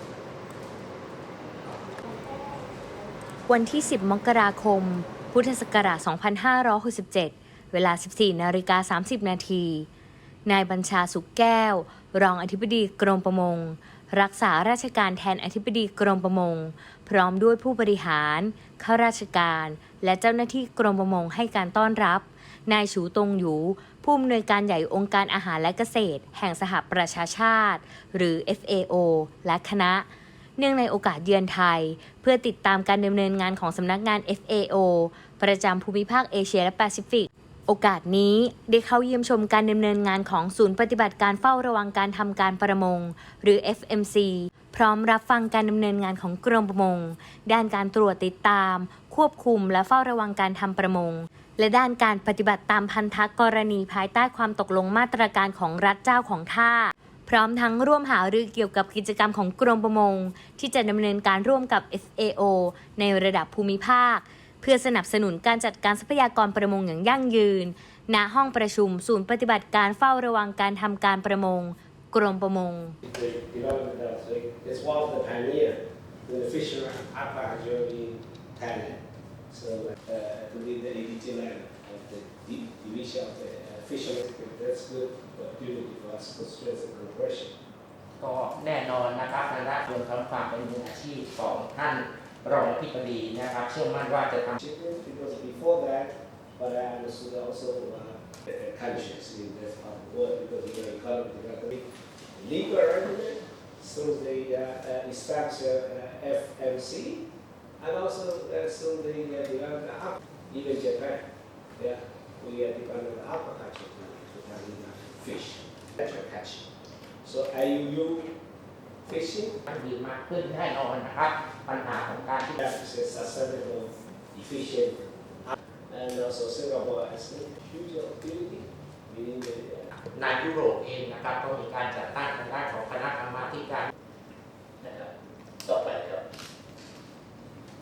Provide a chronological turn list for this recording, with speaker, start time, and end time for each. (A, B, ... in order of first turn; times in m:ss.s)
0:03.5-0:09.9 A
0:10.4-0:30.1 A
0:30.6-1:13.0 A
1:13.0-1:27.6 B
1:28.2-1:34.6 C
1:34.6-1:47.2 B
1:47.8-1:51.2 B
1:51.8-1:56.7 B
1:57.2-1:58.3 B
1:59.0-1:59.6 B
1:59.7-2:02.6 C
2:02.6-2:09.9 B
2:10.0-2:13.9 C
2:14.8-2:15.1 C
2:15.6-2:16.2 C